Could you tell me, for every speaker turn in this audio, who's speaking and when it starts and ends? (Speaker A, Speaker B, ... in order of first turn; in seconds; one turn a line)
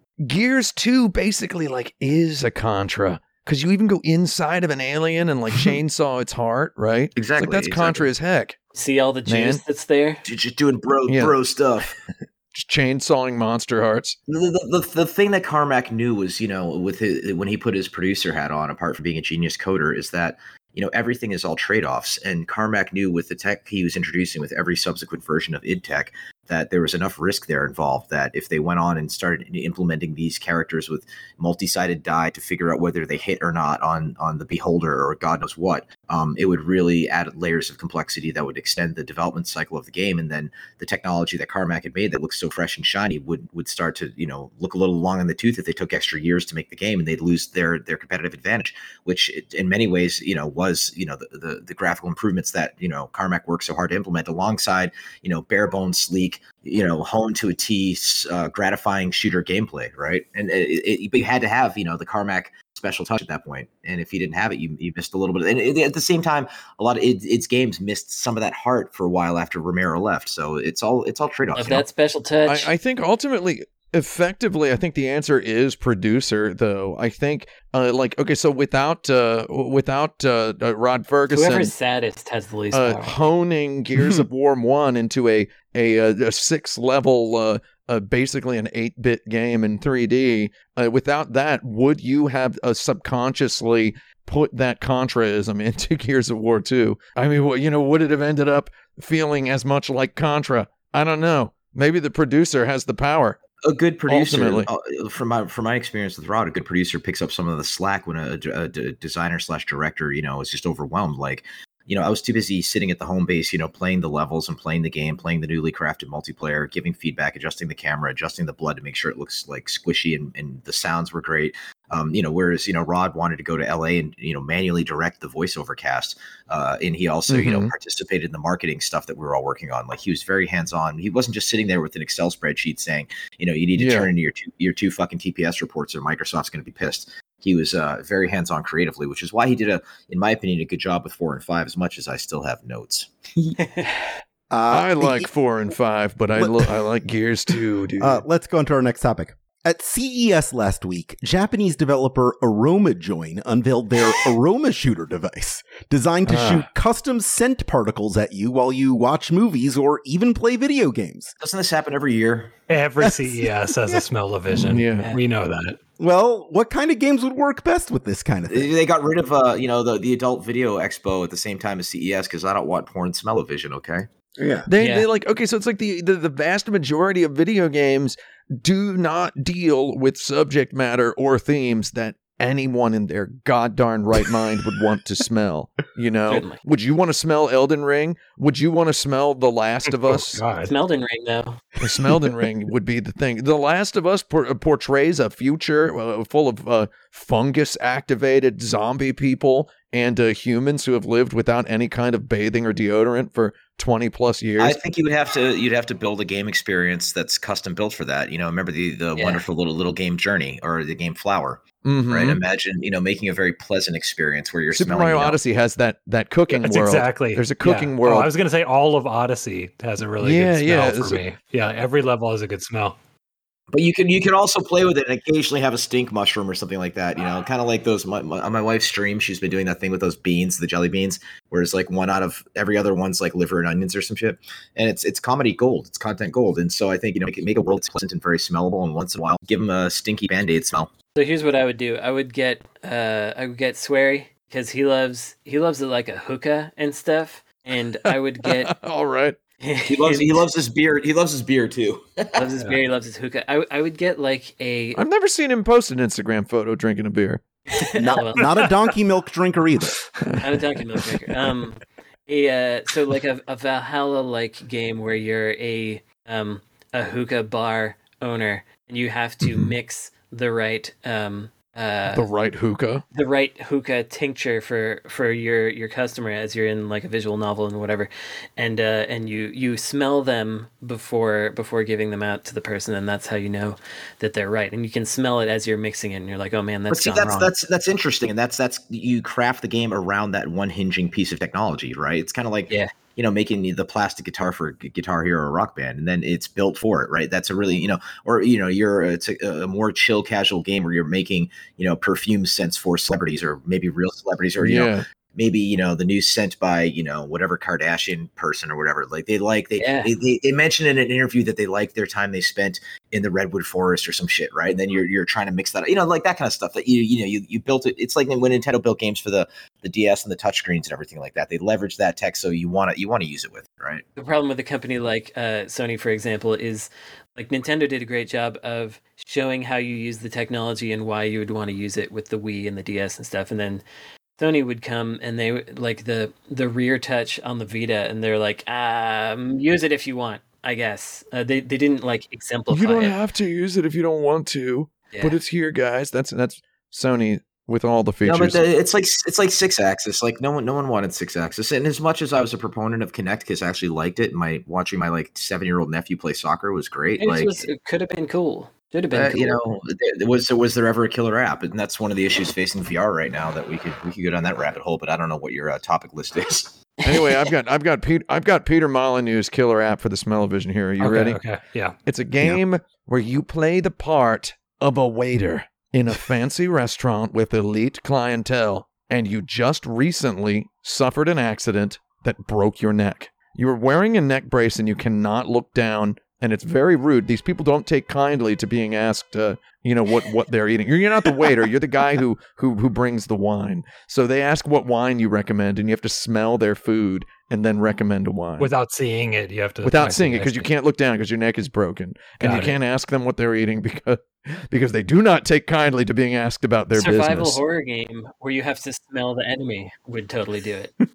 Speaker A: 0.2-8.6
Speaker B: 7.2-8.1
Speaker C: 8.7-10.2
Speaker A: 9.3-9.6
Speaker B: 10.2-11.9
Speaker A: 11.1-11.3
Speaker A: 12.5-14.2
Speaker B: 14.3-71.8
Speaker C: 71.5-72.7
Speaker A: 72.5-81.7
Speaker C: 81.3-83.2
Speaker A: 82.7-103.4
Speaker B: 103.6-143.1
Speaker A: 104.1-104.7
Speaker A: 127.3-127.7
Speaker A: 133.8-134.1
Speaker D: 144.5-145.3
Speaker A: 144.7-148.2
Speaker D: 146.4-146.7
Speaker D: 148.0-161.3
Speaker A: 156.2-156.7
Speaker B: 161.4-162.5
Speaker E: 162.7-165.8
Speaker D: 163.0-164.0
Speaker A: 164.5-165.1
Speaker D: 166.0-168.7
Speaker B: 168.5-174.1
Speaker D: 174.4-174.7
Speaker A: 174.7-190.4
Speaker C: 174.8-175.1
Speaker C: 186.3-186.6
Speaker E: 189.9-190.7
Speaker C: 190.7-191.6
Speaker A: 191.8-204.8
Speaker B: 204.6-215.4
Speaker C: 209.2-209.4
Speaker A: 211.8-212.4
Speaker A: 214.7-218.3
Speaker E: 216.5-223.0
Speaker A: 220.2-221.2
Speaker B: 223.7-240.9
Speaker C: 241.1-248.7
Speaker A: 248.1-249.3
Speaker C: 249.6-250.4
Speaker B: 249.9-252.5
Speaker C: 252.3-255.0
Speaker A: 254.9-257.4
Speaker C: 257.7-258.7
Speaker D: 257.9-260.0
Speaker C: 260.4-272.2
Speaker A: 269.4-269.7
Speaker A: 272.1-273.0
Speaker C: 273.1-287.5
Speaker B: 286.9-324.0
Speaker A: 304.6-305.0
Speaker C: 309.8-310.1
Speaker C: 324.1-333.8
Speaker C: 334.4-343.1
Speaker A: 342.7-348.6
Speaker C: 345.1-345.4
Speaker B: 348.2-357.7
Speaker C: 357.2-359.6
Speaker B: 359.1-366.7
Speaker A: 367.0-371.4
Speaker C: 367.1-367.4
Speaker E: 371.0-371.9
Speaker A: 372.1-398.7
Speaker E: 398.6-400.7
Speaker A: 399.8-407.6
Speaker E: 402.4-402.8
Speaker C: 406.9-410.9